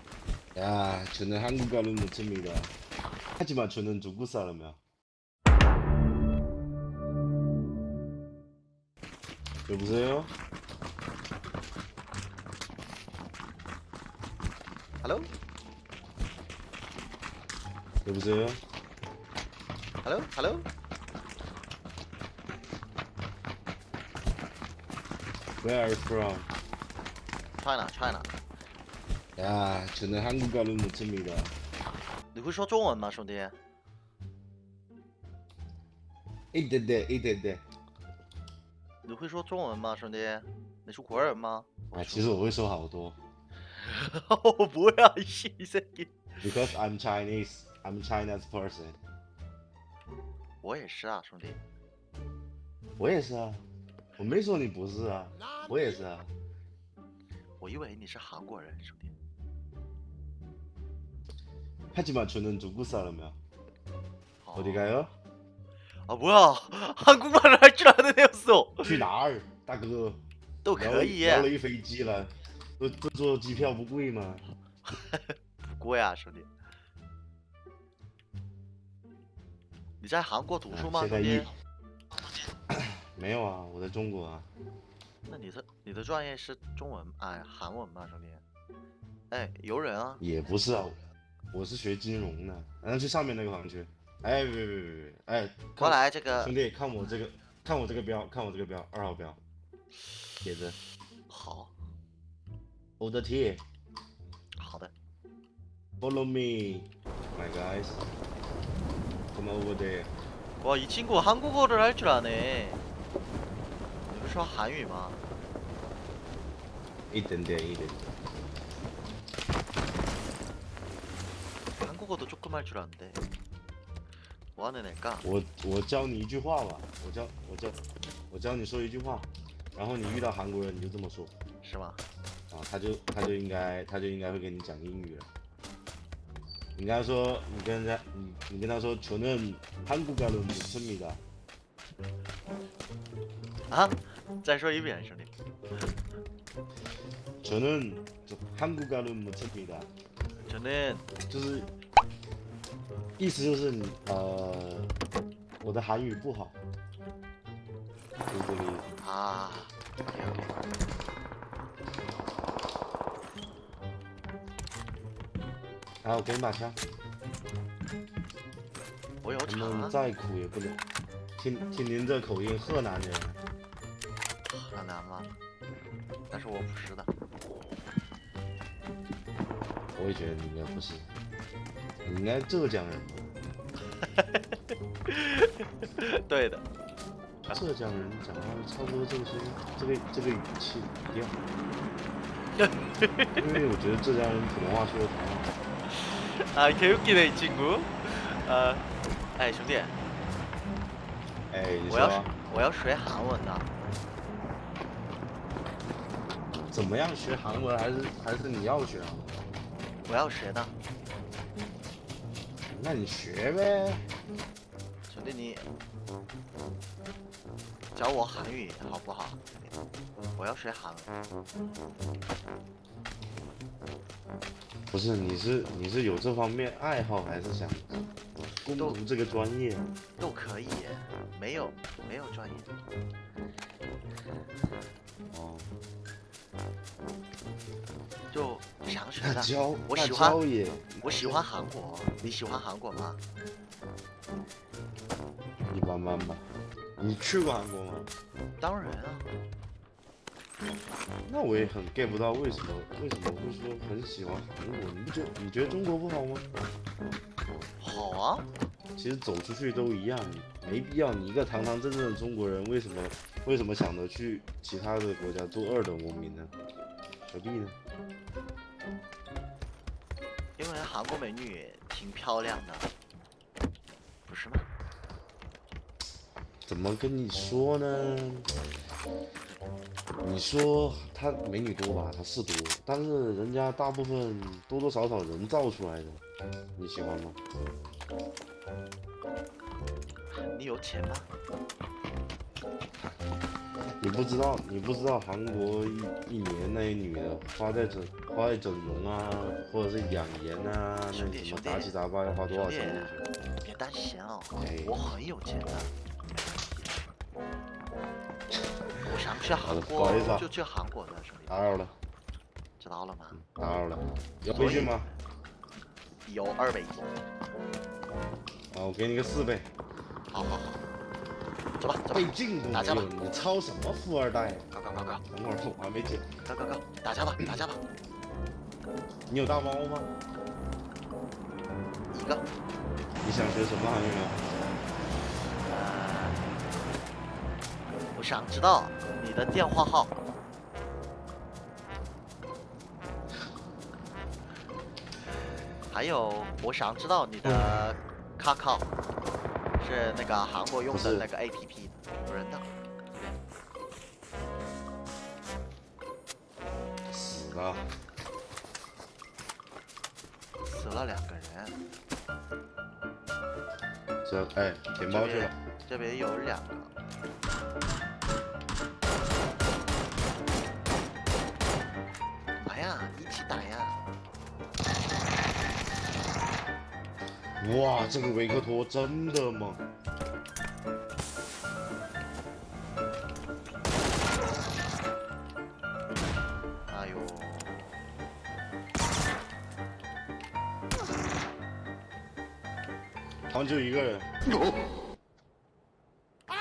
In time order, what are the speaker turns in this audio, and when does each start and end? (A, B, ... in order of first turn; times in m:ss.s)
0:00.6-0:02.7 A
0:03.4-0:04.8 A
0:09.7-0:10.3 A
0:15.0-0:15.3 B
0:18.0-0:18.6 A
0:20.0-0:20.7 B
0:25.6-0:26.5 A
0:27.6-0:28.3 B
0:29.4-0:31.5 A
0:32.3-0:33.6 B
0:36.5-0:37.6 A
0:39.0-0:42.3 B
0:41.9-0:43.2 A
0:43.8-0:46.1 B
0:46.4-0:49.0 A
0:50.6-0:51.6 B
0:53.0-0:53.6 A
0:54.2-0:56.3 A
0:57.6-0:59.1 B
1:01.9-1:03.4 A
1:04.4-1:05.0 B
1:04.6-1:05.1 A
1:06.1-1:09.1 B
1:08.8-1:10.2 A
1:10.6-1:11.5 B
1:10.8-1:14.5 A
1:14.9-1:16.5 B
1:20.0-1:21.5 B
1:20.7-1:21.5 A
1:22.7-1:24.5 A
1:25.3-1:28.4 B
1:29.3-1:30.2 B
1:30.2-1:31.0 A
1:31.5-1:39.4 A
1:35.8-1:36.5 B
1:40.4-1:40.8 A
1:41.3-1:41.7 B
1:43.0-1:43.6 A
1:44.6-1:44.9 B
1:46.0-1:48.0 A
1:49.3-1:50.1 A
1:50.6-1:52.8 B
1:54.1-1:55.2 B
1:57.1-1:58.1 A
2:01.8-2:03.2 B
2:04.6-2:05.3 B
2:05.2-2:11.4 A
2:11.6-2:12.0 B
2:12.5-2:15.3 A
2:16.8-2:21.2 A
2:23.7-2:25.3 B
2:27.4-2:29.9 A
2:30.5-2:31.1 B
2:31.3-2:31.7 A
2:33.2-2:34.9 A
2:35.6-2:36.6 A
2:38.3-2:38.9 A
2:39.0-2:40.6 B
2:46.0-2:46.8 A
2:49.2-2:50.0 B
2:49.4-2:50.8 A
2:51.4-2:53.4 A
2:54.5-2:55.3 B
2:56.3-2:57.1 B
3:00.0-3:01.1 A
3:02.0-3:03.4 A
3:04.0-3:06.7 B
3:07.5-3:11.4 A
3:12.6-3:13.6 B
3:13.3-3:15.5 A
3:15.9-3:20.0 B
3:21.5-3:22.3 A
3:21.9-3:23.7 B
3:26.7-3:29.4 A
3:30.0-3:30.8 B
3:32.7-3:34.1 A
3:35.1-3:35.7 B
3:37.9-3:39.7 B
3:40.4-3:41.1 B
3:44.9-3:48.1 A
3:48.6-3:49.9 A
3:50.2-3:52.7 B
3:55.3-3:55.8 A
3:58.3-4:00.4 B
3:59.2-4:01.4 A
4:01.0-4:03.2 B
4:05.7-4:06.5 A
4:07.0-4:08.1 A
4:08.6-4:09.3 B
4:11.2-4:16.5 A
4:17.8-4:18.5 B
4:19.0-4:26.5 A
4:27.2-4:27.8 A
4:30.6-4:32.9 B
4:34.3-4:34.7 B
4:36.6-4:38.5 A
4:40.2-4:46.2 A
4:46.8-4:47.4 A
4:50.5-4:51.3 B
4:54.0-5:03.2 A
5:01.1-5:05.9 B
5:04.6-5:05.0 A
5:09.0-5:11.6 B
5:09.6-5:10.5 A
5:11.5-5:12.0 A
5:12.8-5:13.4 B
5:13.4-5:15.1 A
5:14.5-5:15.0 B
5:16.3-5:17.1 B
5:18.7-5:19.7 A
5:20.3-5:20.9 B
5:21.8-5:23.1 B
5:22.1-5:24.7 A
5:24.7-5:25.2 B
5:25.3-5:26.4 A
5:26.5-5:27.8 B
5:29.3-5:30.1 A
5:32.1-5:32.5 B
5:33.2-5:34.4 A
5:35.6-5:36.4 B
5:38.2-5:40.2 B
5:45.9-5:48.9 B
5:49.8-5:52.7 B
5:50.9-5:51.3 A
5:57.1-5:57.9 A
6:00.6-6:01.8 B
6:04.2-6:05.6 A
6:05.0-6:06.9 B
6:12.6-6:14.0 B
6:17.6-6:19.8 A
6:26.9-6:28.0 B
6:33.5-6:34.3 A